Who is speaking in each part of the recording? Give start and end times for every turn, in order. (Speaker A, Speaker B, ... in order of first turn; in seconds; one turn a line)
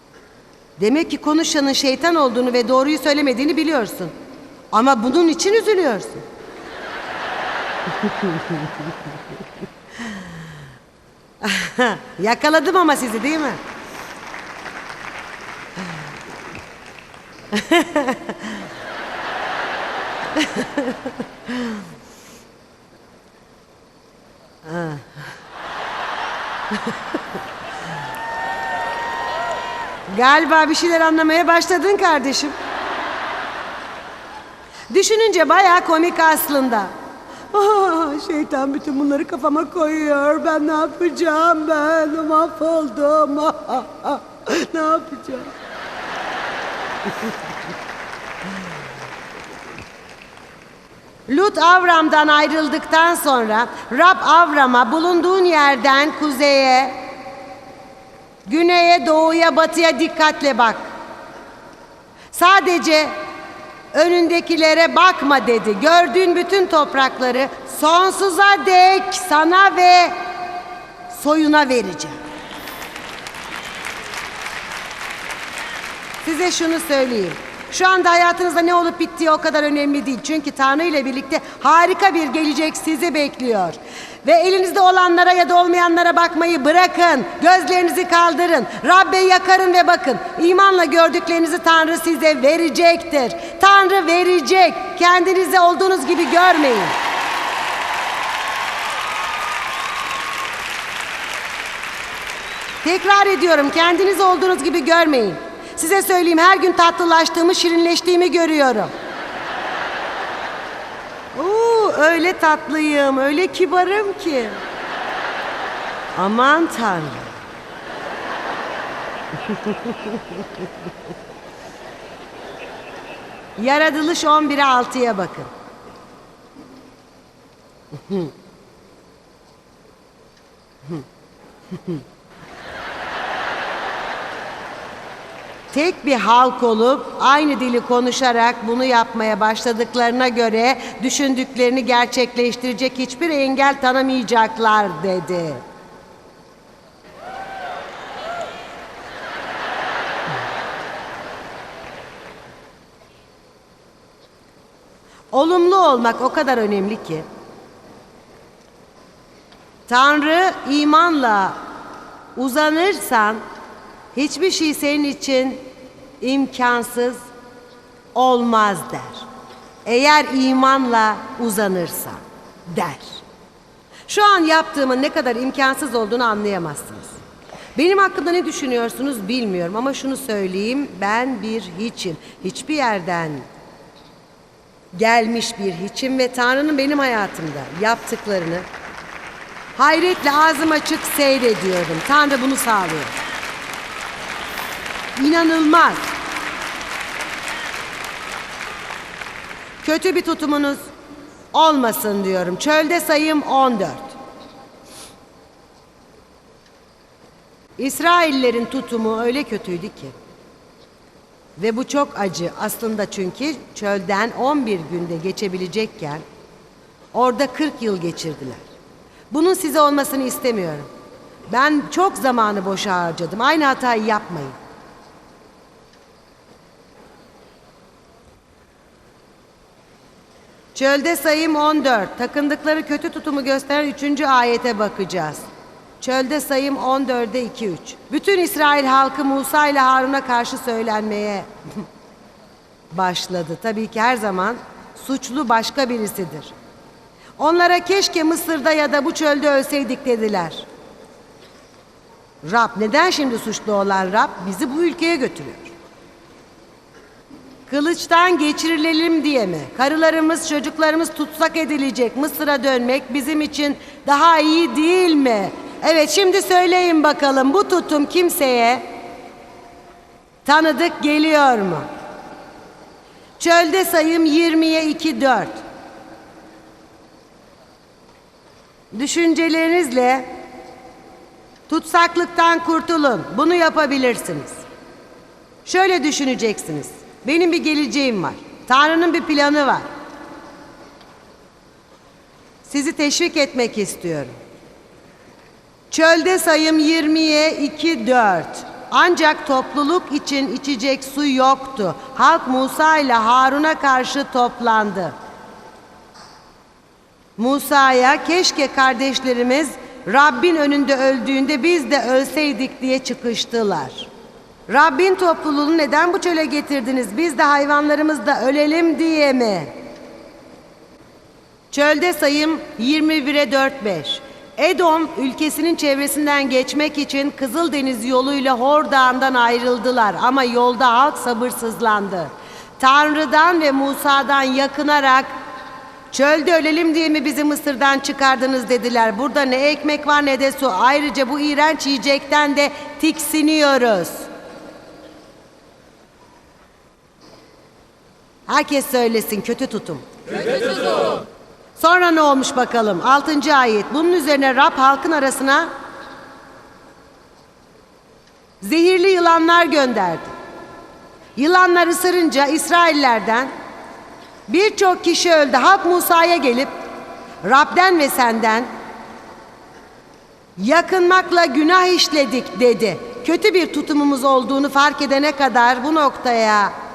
Speaker A: 0.8-4.1
Speaker A: 4.7-6.2
Speaker A: 8.0-8.7
Speaker A: 11.4-13.6
Speaker A: 17.5-18.6
Speaker A: 20.4-20.9
Speaker A: 24.6-25.2
Speaker A: 30.1-32.5
Speaker A: 34.9-36.9
Speaker A: 37.5-45.5
Speaker A: 51.3-57.0
Speaker A: 58.5-60.8
Speaker A: 62.3-63.1
Speaker A: 63.9-70.2
Speaker A: 71.1-72.2
Speaker A: 76.2-96.9
Speaker A: 102.8-108.9
Speaker A: 111.3-114.6
Speaker A: 116.1-117.3
Speaker A: 119.5-120.1
Speaker A: 123.6-125.5
Speaker A: 135.7-145.6
Speaker A: 155.3-157.2
Speaker A: 159.9-161.6
Speaker A: 162.3-163.4
Speaker A: 164.1-165.6
Speaker A: 166.2-167.2
Speaker A: 168.1-169.2
Speaker A: 169.8-173.2
Speaker A: 174.1-177.1
Speaker A: 177.8-183.4
Speaker A: 184.9-188.6
Speaker A: 189.8-193.1
Speaker A: 195.2-196.0
Speaker A: 199.8-200.8
Speaker A: 201.5-204.1
Speaker A: 207.8-210.1
Speaker A: 211.6-216.2
Speaker A: 217.1-218.6
Speaker A: 219.3-220.9
Speaker A: 221.5-224.5
Speaker A: 230.7-235.4
Speaker A: 236.0-241.5
Speaker A: 242.9-246.5
Speaker A: 247.4-250.7
Speaker A: 252.4-255.7
Speaker A: 257.7-268.9
Speaker A: 270.4-271.9
Speaker A: 273.4-275.6
Speaker A: 278.9-280.3
Speaker A: 281.7-284.5
Speaker A: 285.6-289.9
Speaker A: 292.6-294.3
Speaker A: 295.9-305.1
Speaker A: 307.4-314.1
Speaker A: 314.7-319.7
Speaker A: 321.7-335.3
Speaker A: 336.1-344.2
Speaker A: 348.5-350.1
Speaker A: 351.8-355.7
Speaker A: 358.6-360.3
Speaker A: 361.4-363.5
Speaker A: 364.5-366.7
Speaker A: 367.4-368.7
Speaker A: 370.6-376.7